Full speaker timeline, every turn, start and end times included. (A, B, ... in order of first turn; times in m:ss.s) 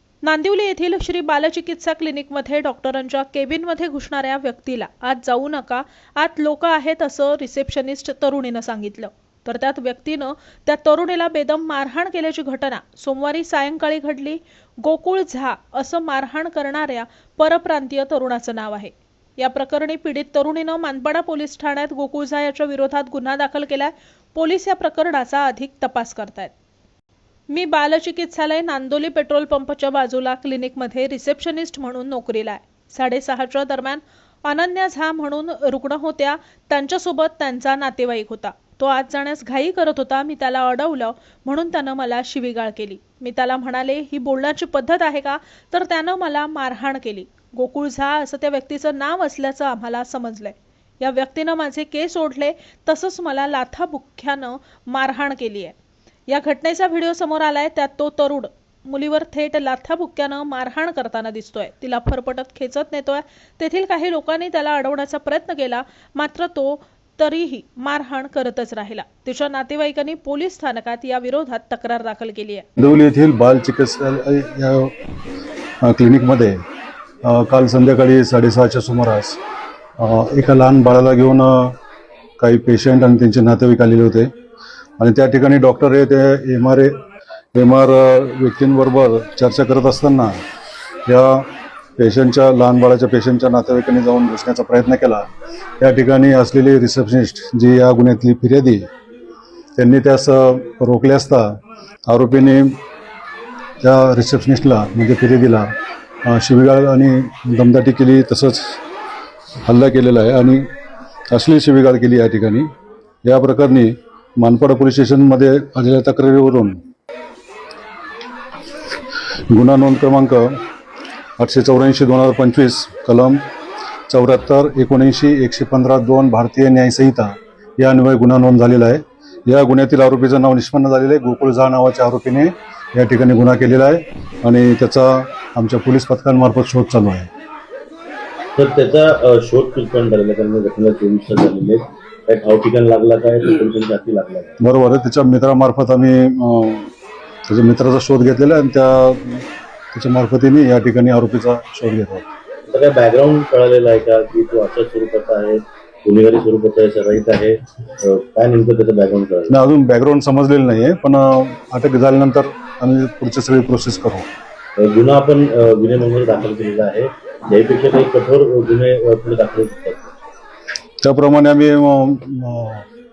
0:00.2-0:26.5 A
0:27.5-0:55.7 A
0:56.3-1:12.7 A
1:12.8-1:14.9 B
1:15.8-1:16.6 B
1:17.2-1:19.4 B
1:20.0-1:21.8 B
1:22.4-1:24.3 B
1:25.0-1:26.9 B
1:27.5-1:30.4 B
1:31.1-1:35.3 B
1:35.8-1:38.9 B
1:39.8-1:42.8 B
1:43.8-1:45.7 B
1:46.2-1:48.8 B
1:49.7-1:50.7 B
1:51.3-1:52.7 B
1:53.2-1:56.8 B
1:59.5-2:00.6 B
2:01.4-2:03.4 B
2:04.1-2:17.3 B
2:18.6-2:24.6 C
2:24.6-2:26.9 B
2:27.5-2:32.2 B
2:32.7-2:39.5 C
2:39.5-2:44.3 B
2:44.8-2:50.0 C
2:51.0-2:52.9 B